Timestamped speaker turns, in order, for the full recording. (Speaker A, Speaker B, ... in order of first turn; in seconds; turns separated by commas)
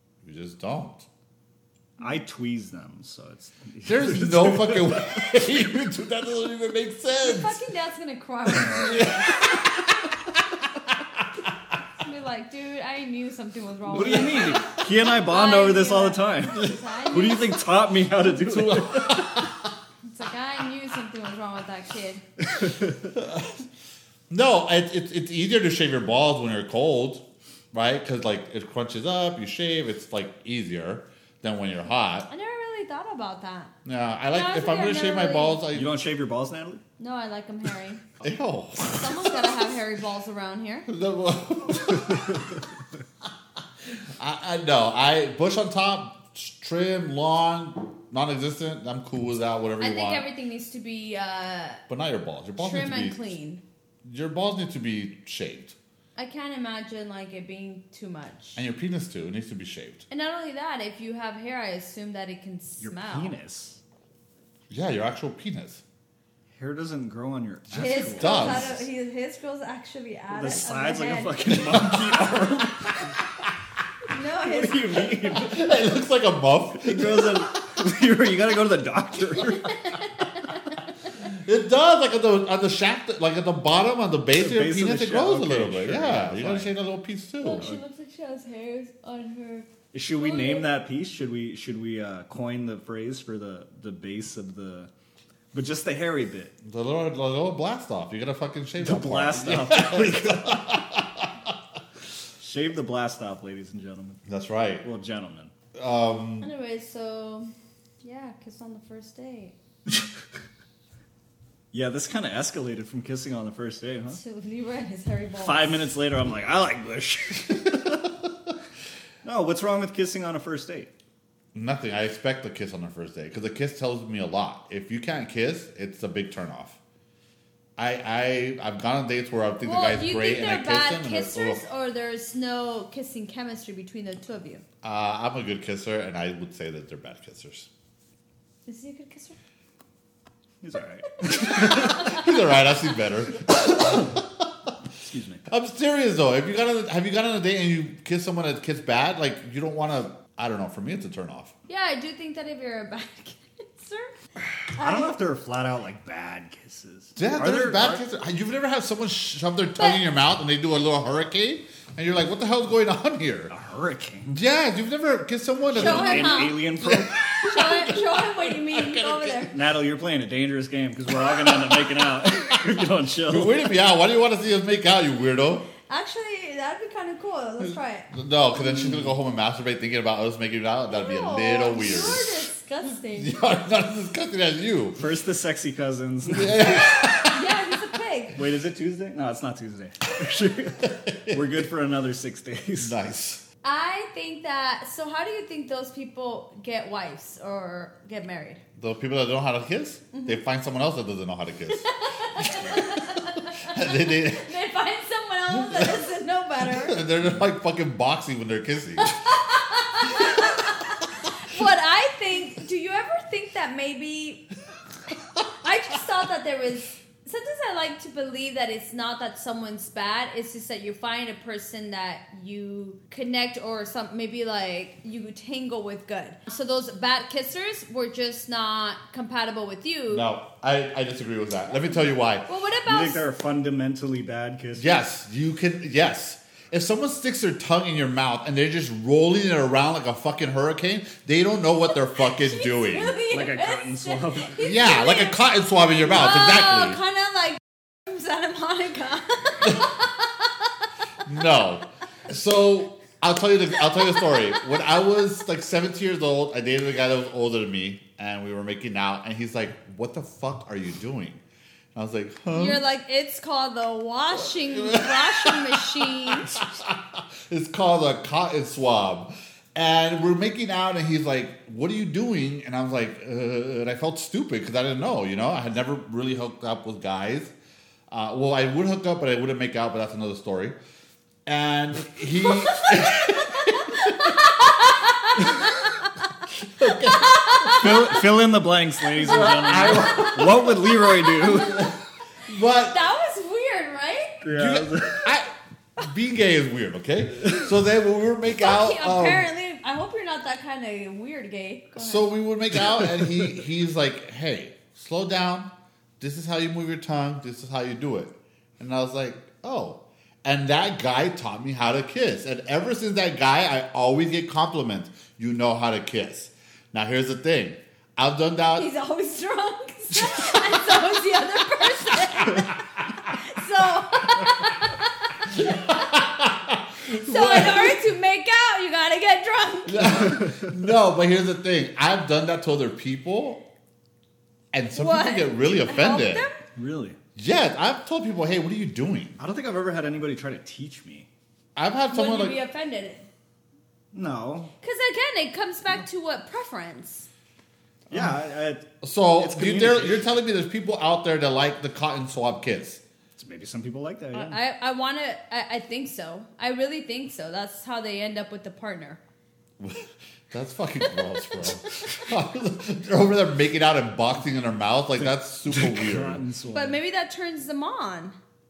Speaker A: 0.2-1.1, Speaker B: 2.0-5.1, Speaker A: 3.9-7.6, Speaker C: 7.2-9.6, Speaker A: 8.6-10.1, Speaker C: 12.0-17.6, Speaker B: 13.9-19.2, Speaker A: 18.4-19.7, Speaker C: 20.0-22.2, Speaker B: 22.5-23.0, Speaker A: 23.1-23.6, Speaker A: 24.3-32.3, Speaker C: 32.3-33.7, Speaker A: 33.9-36.0, Speaker C: 34.3-35.6, Speaker B: 35.7-36.8, Speaker C: 37.0-38.0, Speaker A: 38.2-39.7, Speaker C: 38.9-40.9, Speaker A: 40.9-42.6, Speaker B: 42.1-42.4, Speaker A: 43.9-50.2, Speaker C: 49.8-51.8, Speaker A: 51.9-53.3, Speaker C: 52.6-53.6, Speaker A: 54.0-55.8, Speaker C: 56.1-58.6, Speaker A: 58.5-60.0, Speaker C: 60.1-63.3, Speaker B: 62.8-63.8, Speaker A: 64.7-65.8, Speaker B: 66.5-68.7, Speaker C: 67.7-72.0, Speaker A: 67.8-68.8, Speaker B: 70.3-73.1, Speaker C: 74.1-75.3, Speaker B: 74.4-75.7, Speaker A: 75.3-77.5, Speaker B: 76.7-79.8, Speaker C: 79.5-80.8, Speaker A: 81.2-87.7, Speaker B: 84.3-86.7, Speaker C: 87.4-90.7, Speaker B: 89.9-94.9, Speaker B: 95.5-96.5, Speaker A: 96.6-101.5, Speaker B: 98.8-100.6, Speaker B: 102.4-104.2, Speaker A: 104.3-104.8, Speaker B: 104.8-105.5, Speaker A: 105.7-106.5, Speaker C: 106.4-109.5, Speaker B: 111.7-114.2, Speaker C: 114.1-115.9, Speaker B: 115.4-118.1, Speaker B: 119.2-120.9, Speaker A: 121.5-126.8, Speaker A: 127.8-131.6, Speaker C: 129.6-134.6, Speaker A: 134.8-137.7, Speaker C: 138.7-139.4, Speaker B: 140.6-142.2, Speaker C: 141.2-142.3, Speaker A: 141.4-144.7, Speaker B: 145.0-145.4, Speaker A: 145.5-151.5, Speaker C: 151.7-154.1, Speaker B: 154.7-158.0, Speaker C: 154.8-155.1, Speaker A: 157.2-163.5, Speaker C: 159.8-160.0, Speaker B: 163.5-164.4, Speaker A: 164.3-169.5, Speaker B: 165.7-167.5, Speaker C: 165.7-166.7, Speaker C: 167.4-169.6, Speaker B: 169.5-173.6, Speaker A: 172.3-172.7, Speaker A: 173.3-175.7, Speaker C: 175.8-178.1, Speaker A: 178.1-182.5, Speaker C: 180.9-183.3, Speaker A: 183.1-185.0, Speaker B: 184.9-186.8, Speaker A: 186.3-187.7, Speaker C: 187.2-188.4, Speaker B: 188.3-193.0, Speaker A: 190.8-191.6, Speaker A: 192.8-193.4, Speaker C: 193.6-198.6, Speaker A: 198.8-204.5, Speaker C: 200.1-200.4, Speaker C: 201.7-207.0, Speaker A: 205.5-206.1, Speaker A: 206.6-209.1, Speaker C: 209.0-214.5, Speaker C: 215.6-230.3, Speaker A: 230.1-232.4, Speaker C: 232.4-233.2, Speaker B: 232.8-234.9, Speaker A: 234.8-243.2, Speaker C: 242.2-245.4, Speaker B: 243.3-244.6, Speaker A: 244.6-247.0, Speaker C: 246.0-251.3, Speaker A: 251.2-261.4, Speaker C: 253.9-254.9, Speaker A: 261.9-262.8, Speaker C: 262.5-266.6, Speaker A: 264.3-277.5, Speaker A: 278.1-280.8, Speaker A: 281.4-284.5, Speaker C: 282.6-286.3, Speaker A: 285.4-285.9, Speaker A: 286.6-288.2, Speaker C: 287.0-288.3, Speaker B: 287.7-291.9, Speaker A: 289.1-293.0, Speaker C: 289.2-291.9, Speaker C: 292.8-294.4, Speaker B: 294.4-295.3, Speaker A: 294.5-299.5, Speaker C: 298.6-302.3, Speaker A: 302.0-318.9, Speaker C: 318.8-326.0, Speaker A: 325.5-328.0, Speaker C: 327.1-330.4, Speaker A: 329.9-333.6, Speaker A: 334.7-336.4, Speaker C: 334.9-336.6, Speaker B: 336.7-337.2, Speaker A: 337.4-339.4, Speaker B: 339.4-341.3, Speaker A: 341.8-342.6, Speaker C: 342.1-343.3, Speaker B: 344.1-344.7, Speaker C: 344.8-347.3, Speaker B: 348.1-350.2, Speaker A: 349.0-353.0, Speaker B: 353.4-354.6, Speaker C: 354.3-359.2, Speaker A: 359.8-366.4, Speaker C: 361.0-362.3, Speaker B: 365.7-367.0, Speaker C: 366.7-368.4